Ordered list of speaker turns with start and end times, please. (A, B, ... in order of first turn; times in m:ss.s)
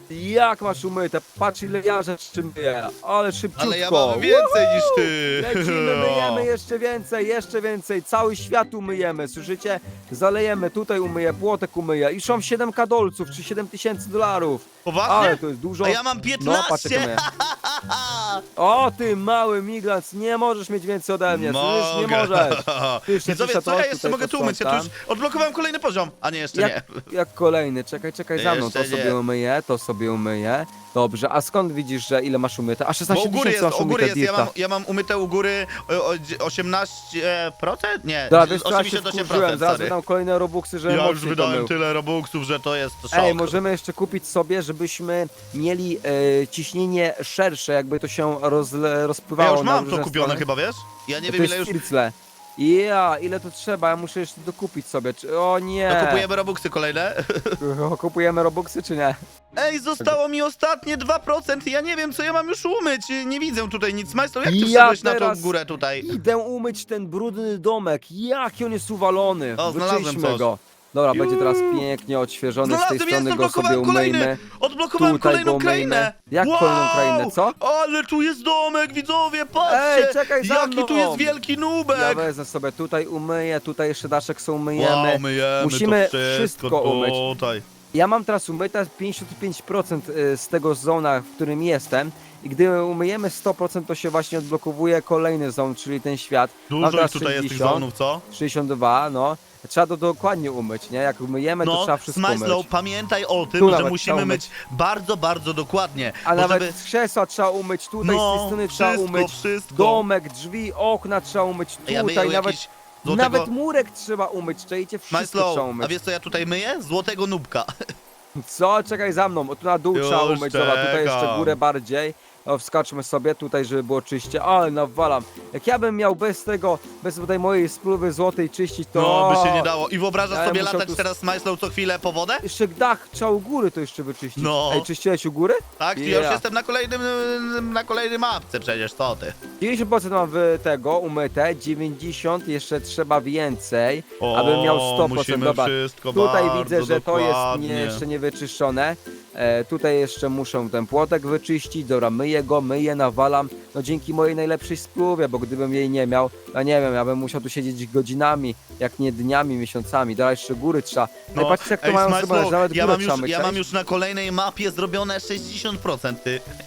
0:00.1-0:17.2 A
0:03.6-0:06.4 B
0:14.8-0:18.4 B
0:18.6-0:24.9 A
0:21.3-0:27.1 B
0:26.5-0:34.5 A
0:28.4-0:29.2 B
0:33.1-0:39.9 B
0:38.3-0:41.7 A
0:40.9-0:43.6 B
0:43.1-0:50.4 A
0:49.4-0:51.8 B
0:51.2-0:56.2 A
0:55.9-0:57.6 B
0:57.6-0:59.2 A
0:59.6-1:06.1 B
1:04.4-1:14.4 A
1:09.6-1:10.5 B
1:11.1-1:11.8 B
1:12.6-1:22.3 B
1:15.0-1:17.6 A
1:19.6-1:21.4 A
1:21.9-1:27.2 A
1:24.8-1:27.6 B
1:27.9-1:42.7 A
1:36.7-1:38.2 B
1:41.6-1:46.7 B
1:43.6-1:44.4 A
1:46.2-1:55.9 A
1:48.0-1:50.0 B
1:51.8-1:53.5 B
1:55.1-1:57.7 B
1:58.4-2:09.7 A
1:59.9-2:01.5 B
2:08.9-2:12.4 B
2:10.3-2:11.0 A
2:12.4-2:16.4 A
2:14.4-2:14.9 B
2:15.8-2:19.3 B
2:19.6-2:43.6 A
2:24.2-2:28.0 B
2:41.3-2:46.4 B